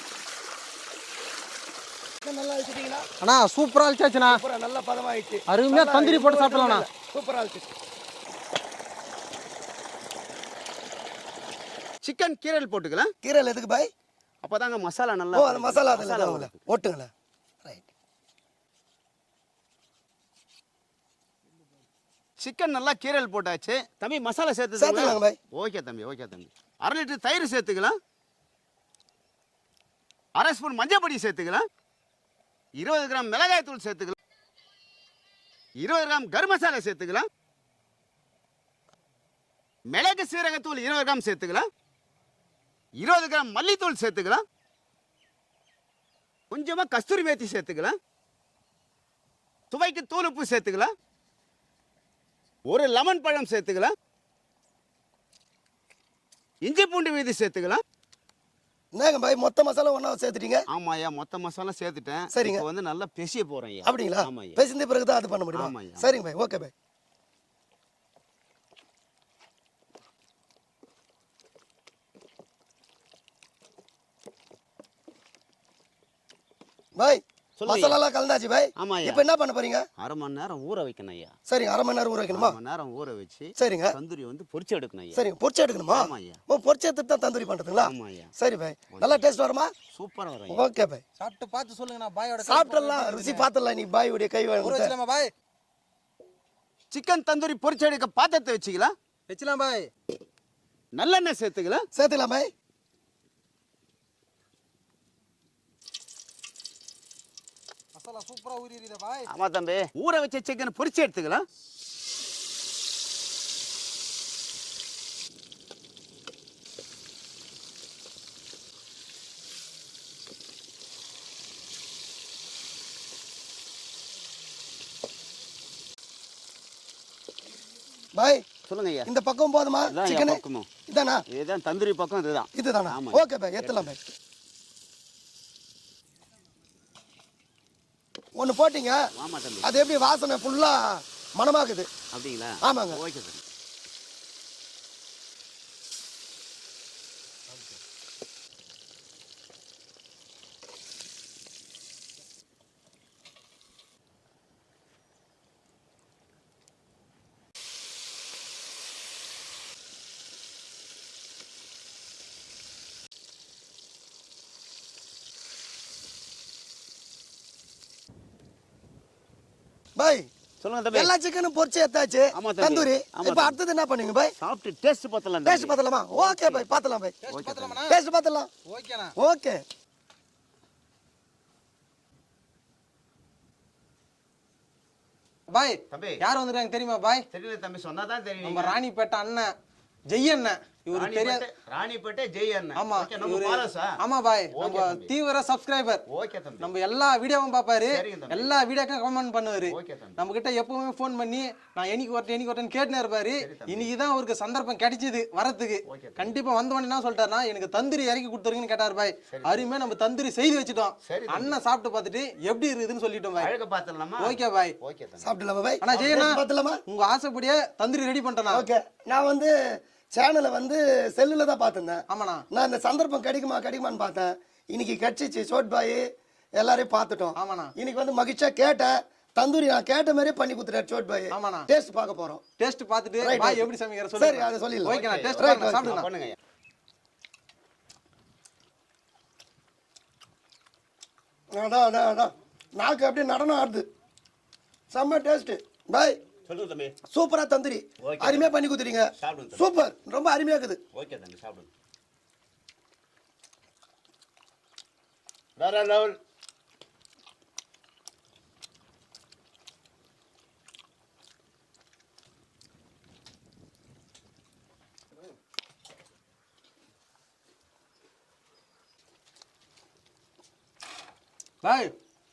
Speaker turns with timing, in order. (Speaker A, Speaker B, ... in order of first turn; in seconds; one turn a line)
Speaker A: 2.2-3.1
Speaker B: 3.2-4.4
Speaker A: 4.3-7.7
Speaker B: 5.5-6.9
Speaker C: 12.0-13.1
Speaker A: 13.2-13.9
Speaker C: 14.4-16.6
Speaker A: 15.3-17.1
Speaker C: 22.4-27.9
Speaker A: 24.8-25.4
Speaker C: 30.4-31.6
Speaker C: 32.8-34.2
Speaker C: 35.8-37.3
Speaker C: 39.9-41.7
Speaker C: 43.0-44.4
Speaker C: 46.5-48.0
Speaker C: 49.7-50.9
Speaker C: 52.7-53.9
Speaker C: 56.6-57.8
Speaker A: 59.0-60.6
Speaker C: 60.7-64.6
Speaker A: 62.3-62.7
Speaker A: 63.9-66.7
Speaker C: 65.5-66.1
Speaker A: 77.0-79.8
Speaker C: 77.6-78.0
Speaker C: 78.8-79.2
Speaker C: 80.0-81.3
Speaker A: 81.5-82.6
Speaker C: 82.3-85.2
Speaker A: 83.6-84.0
Speaker A: 85.2-89.7
Speaker C: 85.9-86.4
Speaker C: 87.8-88.3
Speaker C: 88.9-89.2
Speaker C: 89.9-90.7
Speaker A: 90.5-91.0
Speaker B: 91.2-93.5
Speaker A: 92.4-95.0
Speaker B: 94.6-95.3
Speaker C: 96.9-98.9
Speaker B: 99.3-99.9
Speaker C: 101.0-101.8
Speaker A: 101.9-102.5
Speaker B: 108.0-109.3
Speaker C: 109.3-111.4
Speaker A: 128.2-128.4
Speaker C: 128.7-129.1
Speaker A: 129.1-131.2
Speaker C: 129.9-130.7
Speaker C: 131.3-133.9
Speaker A: 132.6-134.0
Speaker A: 138.4-139.0
Speaker C: 139.2-139.7
Speaker A: 139.6-141.9
Speaker C: 142.1-143.4
Speaker A: 142.6-143.0
Speaker A: 170.0-170.3
Speaker C: 170.6-171.1
Speaker A: 170.9-174.3
Speaker C: 172.3-173.6
Speaker C: 174.4-176.7
Speaker A: 175.4-177.2
Speaker B: 177.2-178.0
Speaker C: 177.3-177.8
Speaker A: 177.9-178.5
Speaker B: 178.7-179.1
Speaker A: 179.2-179.6
Speaker B: 185.5-187.3
Speaker C: 185.9-186.2
Speaker C: 187.3-188.8
Speaker B: 188.4-189.5
Speaker B: 190.1-191.5
Speaker C: 190.9-194.0
Speaker B: 192.8-196.0
Speaker C: 194.5-195.1
Speaker C: 196.1-196.7
Speaker B: 196.6-213.5
Speaker C: 197.9-198.5
Speaker C: 199.7-200.2
Speaker C: 203.4-203.9
Speaker C: 205.9-206.3
Speaker C: 209.3-209.6
Speaker C: 211.0-211.6
Speaker C: 213.4-215.3
Speaker B: 214.2-214.8
Speaker A: 215.2-216.8
Speaker B: 215.8-218.7
Speaker C: 215.9-216.3
Speaker A: 218.5-226.1
Speaker B: 222.1-222.4
Speaker A: 226.6-232.4
Speaker B: 227.4-227.7
Speaker B: 231.3-231.7
Speaker B: 232.6-236.1
Speaker A: 233.2-235.9
Speaker C: 234.9-236.4
Speaker A: 241.5-243.9
Speaker A: 244.9-246.2
Speaker C: 246.5-247.0
Speaker A: 247.1-250.8
Speaker C: 248.0-248.5
Speaker C: 249.2-249.7
Speaker C: 250.9-251.7
Speaker C: 255.6-256.2
Speaker B: 271.6-271.9